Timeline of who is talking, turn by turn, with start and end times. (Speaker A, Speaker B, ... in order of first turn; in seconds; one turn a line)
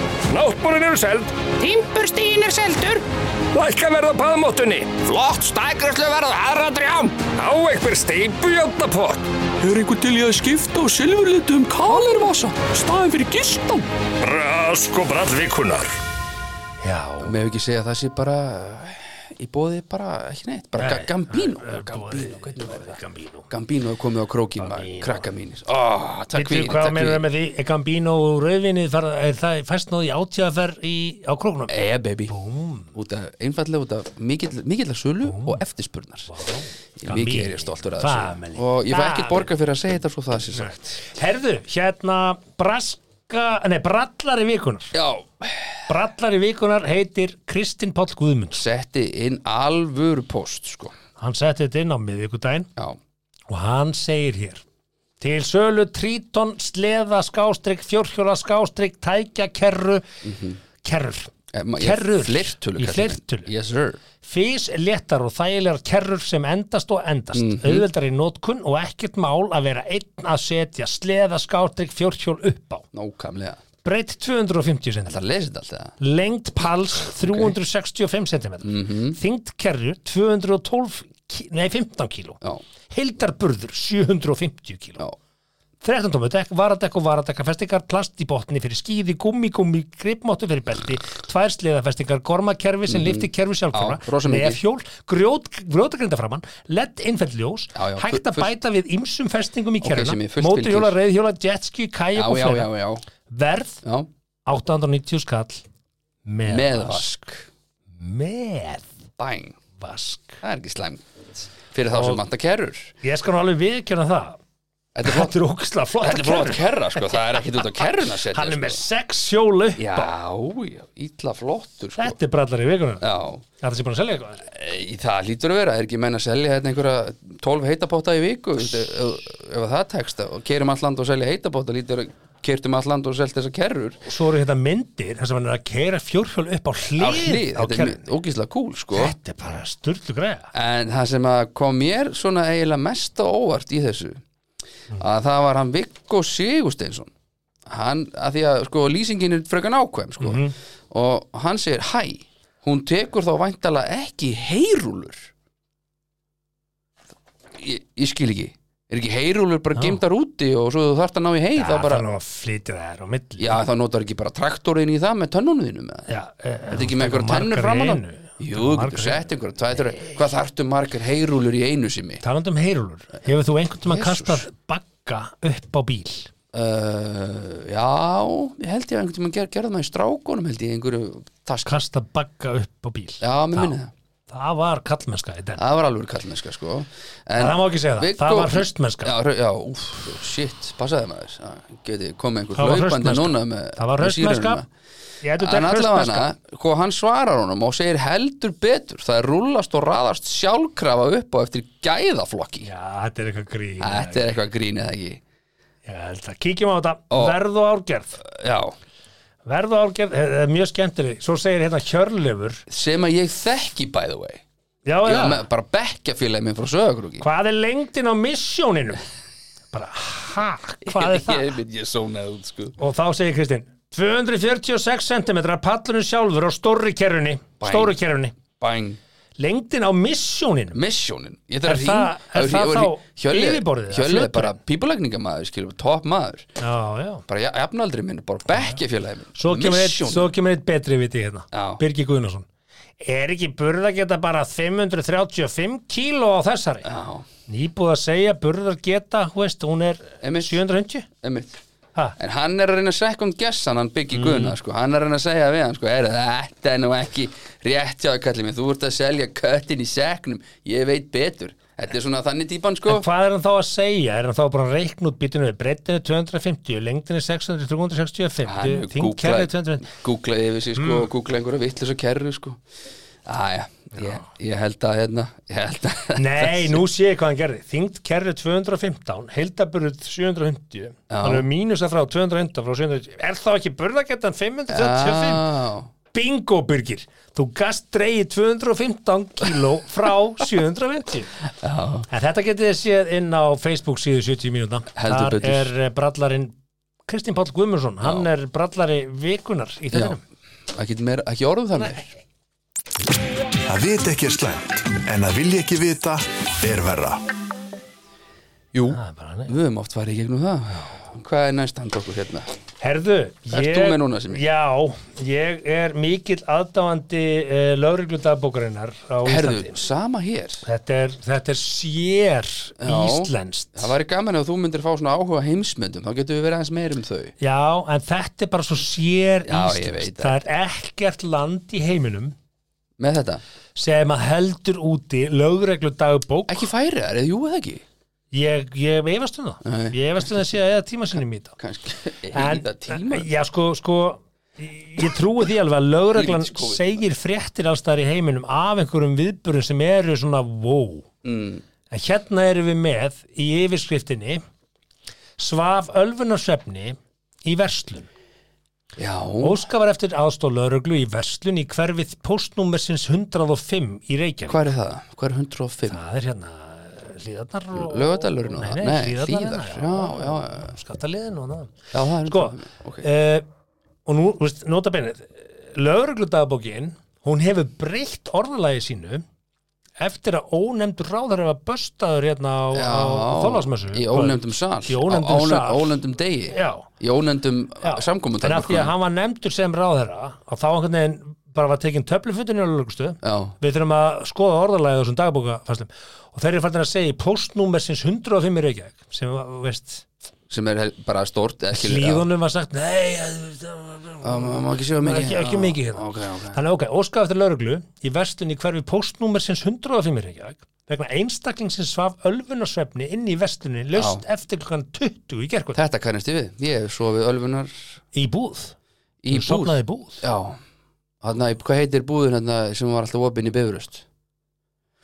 Speaker A: 0.3-1.3
Speaker B: 1.6-3.0
Speaker A: 3.5-5.0
Speaker B: 5.0-7.3
Speaker A: 7.3-9.2
Speaker C: 9.6-13.8
Speaker A: 14.2-15.9
Speaker D: 16.8-17.3
Speaker E: 17.2-22.9
Speaker D: 20.8-23.5
Speaker E: 23.5-27.2
Speaker D: 24.6-25.2
Speaker D: 26.3-31.7
Speaker E: 31.7-32.3
Speaker D: 32.3-32.9
Speaker E: 32.9-36.3
Speaker D: 35.2-35.6
Speaker D: 36.3-39.5
Speaker E: 37.0-41.0
Speaker D: 40.5-44.9
Speaker E: 44.9-45.9
Speaker D: 45.9-48.6
Speaker E: 48.6-50.9
Speaker D: 51.2-52.7
Speaker D: 53.5-54.6
Speaker D: 55.2-60.0
Speaker E: 60.2-60.6
Speaker D: 60.8-63.5
Speaker E: 61.5-64.0
Speaker D: 64.2-72.8
Speaker E: 67.3-67.8
Speaker E: 72.9-73.6
Speaker D: 73.8-75.2
Speaker E: 75.0-75.9
Speaker D: 76.0-85.0
Speaker E: 77.2-77.5
Speaker E: 78.6-79.2
Speaker D: 85.8-102.7
Speaker E: 92.9-94.6
Speaker E: 97.8-98.5
Speaker E: 99.8-100.9
Speaker E: 102.1-103.0
Speaker D: 103.3-103.8
Speaker D: 104.5-105.6
Speaker D: 106.2-107.0
Speaker E: 106.5-107.4
Speaker D: 108.0-108.9
Speaker E: 109.2-109.6
Speaker D: 109.8-110.4
Speaker E: 110.4-112.9
Speaker D: 111.9-112.2
Speaker D: 113.0-114.4
Speaker E: 114.9-115.3
Speaker D: 115.0-120.1
Speaker E: 116.0-118.8
Speaker E: 119.8-122.2
Speaker D: 122.0-123.0
Speaker E: 123.0-123.4
Speaker D: 123.6-124.5
Speaker E: 124.5-134.0
Speaker D: 134.0-138.0
Speaker E: 137.0-139.1
Speaker D: 138.9-140.5
Speaker E: 140.5-144.2
Speaker E: 145.0-147.1
Speaker E: 147.7-155.3
Speaker D: 150.2-150.5
Speaker E: 157.6-162.1
Speaker D: 161.6-163.6
Speaker E: 163.4-166.1
Speaker D: 166.1-169.2
Speaker E: 166.7-172.2
Speaker D: 169.9-170.2
Speaker D: 172.2-176.3
Speaker E: 173.8-174.4
Speaker E: 176.5-181.8
Speaker D: 181.6-183.7
Speaker E: 183.2-183.9
Speaker D: 184.3-185.6
Speaker E: 185.6-194.6
Speaker D: 187.3-189.1
Speaker D: 192.6-194.6
Speaker D: 195.2-196.3
Speaker E: 195.4-202.7
Speaker D: 202.6-204.3
Speaker E: 203.8-205.2
Speaker D: 205.8-208.2
Speaker E: 207.1-207.4
Speaker E: 208.2-208.7
Speaker D: 209.4-212.6
Speaker E: 212.7-214.4
Speaker D: 214.8-215.4
Speaker E: 215.0-217.2
Speaker D: 217.2-219.0
Speaker D: 219.7-221.4
Speaker E: 220.8-222.8
Speaker D: 222.8-228.3
Speaker E: 227.6-229.0
Speaker D: 229.4-230.8
Speaker E: 230.7-236.5
Speaker D: 231.6-234.5
Speaker D: 236.6-237.2
Speaker E: 237.3-240.3
Speaker D: 238.5-238.8
Speaker D: 239.3-242.5
Speaker E: 241.5-241.8
Speaker D: 243.0-246.9
Speaker E: 246.8-247.2
Speaker D: 247.5-251.1
Speaker E: 250.2-250.6
Speaker E: 251.2-251.6
Speaker E: 252.2-263.1
Speaker D: 254.1-254.6
Speaker D: 262.9-269.9
Speaker E: 268.5-272.6
Speaker D: 270.8-271.1
Speaker E: 273.2-276.8
Speaker D: 273.9-274.2
Speaker D: 276.1-285.4
Speaker E: 281.1-281.4
Speaker E: 284.7-285.9
Speaker D: 286.1-291.3
Speaker E: 291.6-292.1
Speaker D: 292.1-296.5
Speaker E: 294.9-295.7
Speaker D: 297.1-300.2
Speaker E: 299.9-300.2
Speaker E: 300.7-302.1
Speaker F: 303.7-307.2
Speaker E: 308.7-312.5
Speaker D: 308.9-309.5
Speaker D: 312.8-319.8
Speaker E: 313.5-314.4
Speaker E: 319.2-320.6
Speaker D: 320.6-323.9
Speaker E: 322.8-327.3
Speaker D: 327.4-332.3
Speaker E: 329.5-330.4
Speaker E: 333.0-333.4
Speaker D: 333.8-336.7
Speaker E: 336.5-337.8
Speaker D: 338.3-341.5
Speaker E: 339.6-340.0
Speaker E: 341.6-343.3
Speaker D: 342.3-351.1
Speaker E: 346.1-347.0
Speaker E: 351.2-351.6
Speaker D: 351.9-354.4
Speaker D: 355.4-358.1
Speaker E: 359.0-359.6
Speaker D: 359.4-364.6
Speaker E: 364.5-366.0
Speaker D: 365.9-373.4
Speaker E: 367.7-370.7
Speaker E: 371.9-373.1
Speaker D: 374.1-379.2
Speaker D: 380.0-386.0
Speaker E: 382.7-388.9
Speaker D: 386.5-386.9
Speaker D: 387.8-400.0
Speaker E: 393.2-393.6
Speaker E: 400.5-402.2
Speaker D: 401.7-415.8
Speaker E: 404.2-406.6
Speaker E: 413.9-414.2
Speaker E: 415.7-417.8
Speaker D: 418.1-418.7
Speaker E: 419.2-420.6
Speaker D: 419.3-420.2
Speaker E: 421.2-424.0